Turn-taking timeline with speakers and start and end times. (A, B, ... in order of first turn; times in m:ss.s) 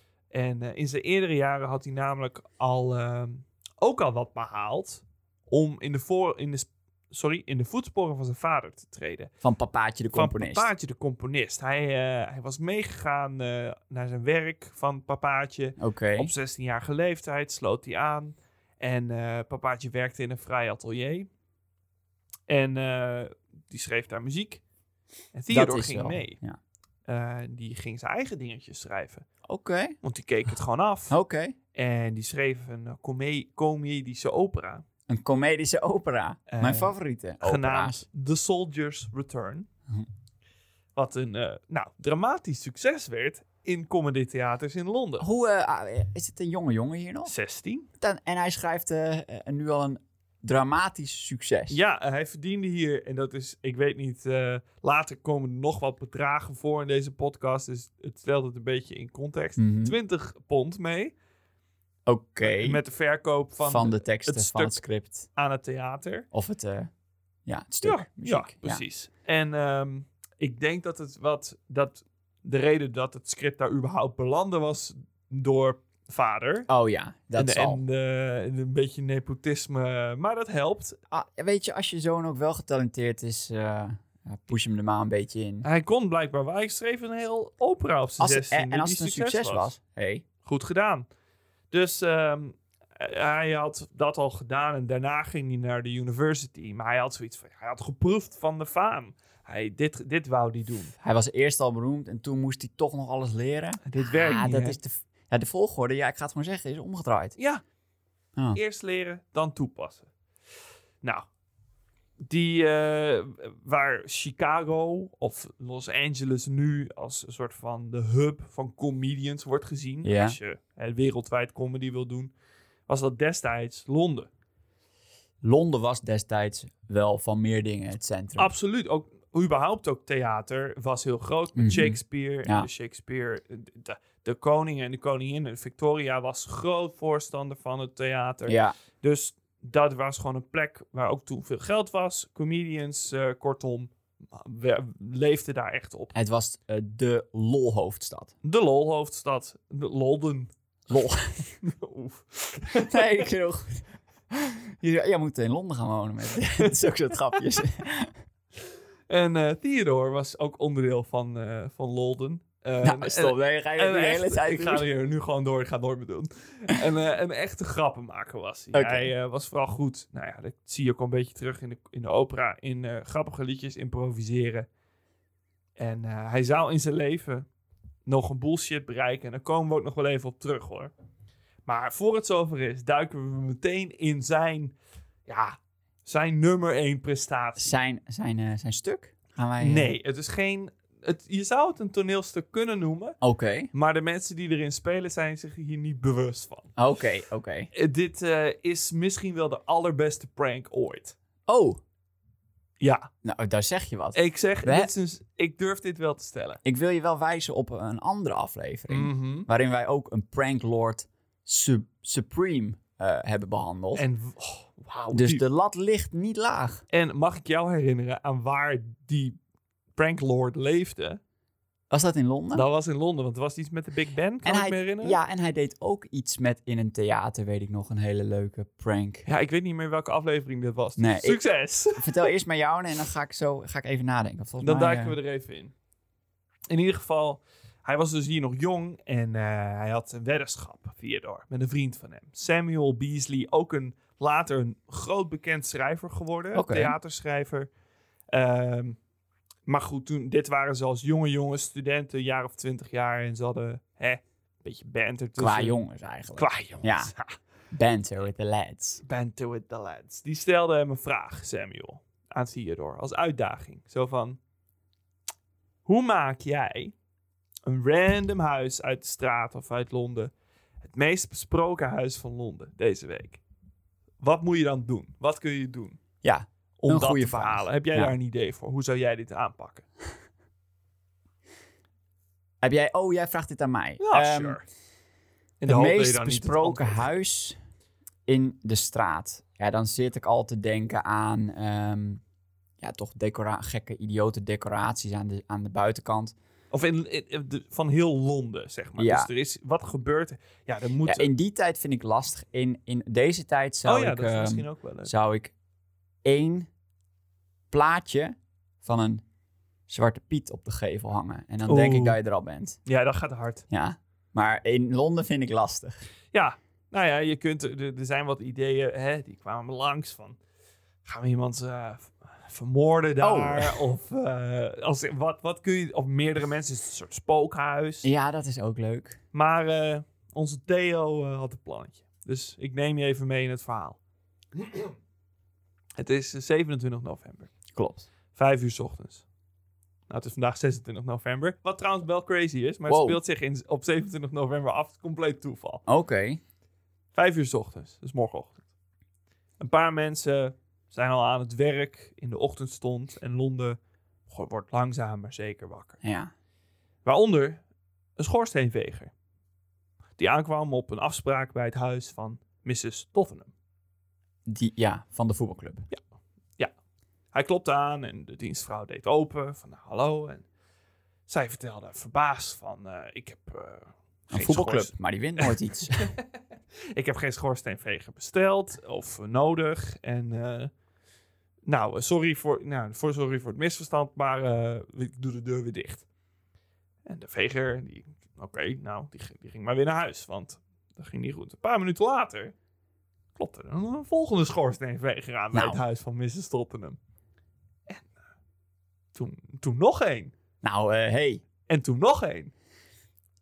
0:00.3-0:09.3 A
0:09.4-0:10.7 B
0:10.1-0:21.3 A
0:15.8-0:16.3 B
0:22.5-0:24.6 A
0:25.3-0:26.4 A
0:25.5-0:26.6 B
0:27.1-0:29.2 A
0:29.5-0:30.0 B
0:30.0-0:31.1 A
0:31.1-0:31.6 B
0:31.7-0:34.8 A
0:35.1-0:38.0 B
0:36.5-0:39.7 A
0:41.0-0:45.2 A
0:45.2-0:47.3 B
0:47.2-0:47.9 A
0:48.0-0:51.8 B
0:51.7-1:01.1 A
0:59.6-0:59.9 B
1:02.0-1:02.8 B
1:02.4-1:04.8 A
1:03.6-1:05.3 B
1:05.3-1:06.2 A
1:06.3-1:06.9 B
1:07.4-1:08.8 B
1:07.8-1:16.7 A
1:16.7-1:17.8 B
1:17.4-1:21.0 A
1:21.1-1:25.6 B
1:25.6-1:29.7 A
1:28.2-1:30.2 B
1:30.4-1:31.0 A
1:31.7-1:40.9 A
1:41.0-1:47.4 B
1:43.8-1:44.8 A
1:47.4-1:47.6 A
1:48.5-1:50.1 A
1:52.2-2:02.3 A
2:00.0-2:00.4 B
2:02.9-2:04.3 A
2:05.4-2:08.5 B
2:08.4-2:26.1 A
2:11.6-2:12.7 B
2:18.5-2:18.7 B
2:26.1-2:28.3 B
2:28.4-2:30.5 A
2:30.9-2:31.4 B
2:31.6-2:33.2 A
2:32.7-2:38.1 B
2:39.1-2:54.7 A
2:42.8-2:44.8 B
2:48.7-2:49.1 B
2:55.8-2:57.5 A
2:58.0-3:00.9 A
3:01.6-3:04.7 A
3:05.3-3:07.7 A
3:07.6-3:09.9 B
3:09.6-3:13.2 A
3:13.2-3:13.7 B
3:13.7-3:16.7 A
3:16.8-3:17.7 B
3:17.7-3:21.1 A
3:21.5-3:21.8 B
3:22.8-3:23.1 A
3:23.2-3:24.9 B
3:24.1-3:26.6 A
3:26.6-3:34.0 B
3:28.9-3:29.5 A
3:33.9-3:35.4 A
3:35.1-3:36.8 B
3:36.9-3:39.4 A
3:40.0-3:41.2 A
3:41.9-3:42.7 B
3:42.5-3:45.2 A
3:44.4-3:49.2 B
3:49.2-3:52.3 A
3:51.0-3:51.4 B
3:52.0-3:55.2 B
3:54.6-3:55.7 A
3:56.7-4:07.7 A
4:06.5-4:07.0 B
4:08.3-4:09.0 A
4:09.6-4:15.8 A
4:15.4-4:17.1 B
4:16.4-4:17.4 A
4:17.7-4:19.0 B
4:19.0-4:24.4 A
4:25.8-4:26.9 A
4:27.6-4:30.3 A
4:30.8-4:33.4 A
4:34.2-4:36.0 A
4:36.2-4:38.1 B
4:36.8-4:39.8 A
4:42.6-4:44.6 B
4:44.0-4:44.6 A
4:45.6-4:47.0 A
4:45.6-4:47.6 B
4:48.3-4:52.2 B
4:52.8-4:56.3 B
4:56.7-5:01.3 A
4:59.0-4:59.3 B
5:01.0-5:05.5 B
5:03.8-5:05.1 A
5:06.2-5:06.7 B
5:07.7-5:09.2 B
5:09.9-5:12.8 B
5:11.6-5:12.2 A
5:12.8-5:13.6 A
5:13.7-5:16.0 B
5:16.3-5:20.4 A
5:21.0-5:28.1 A
5:23.2-5:23.8 B
5:28.0-5:29.2 B
5:29.3-5:34.0 A
5:36.0-5:37.5 A
5:37.7-5:38.1 B
5:38.3-5:39.2 A
5:40.1-5:45.8 A
5:42.9-5:43.2 B
5:45.9-5:46.4 B
5:47.1-5:48.6 A
5:49.6-5:56.0 A
5:56.0-5:56.3 B
5:57.0-5:57.6 A
5:58.2-5:59.1 A
6:00.2-6:03.5 A
6:04.4-6:05.8 B
6:07.3-6:10.4 A
6:11.3-6:16.2 A
6:14.3-6:16.1 B
6:16.9-6:20.7 A
6:21.7-6:26.0 A
6:27.0-6:32.5 A
6:33.4-6:37.0 A
6:35.5-6:35.8 B
6:39.1-6:40.3 A
6:40.6-6:41.4 B
6:41.7-6:42.5 A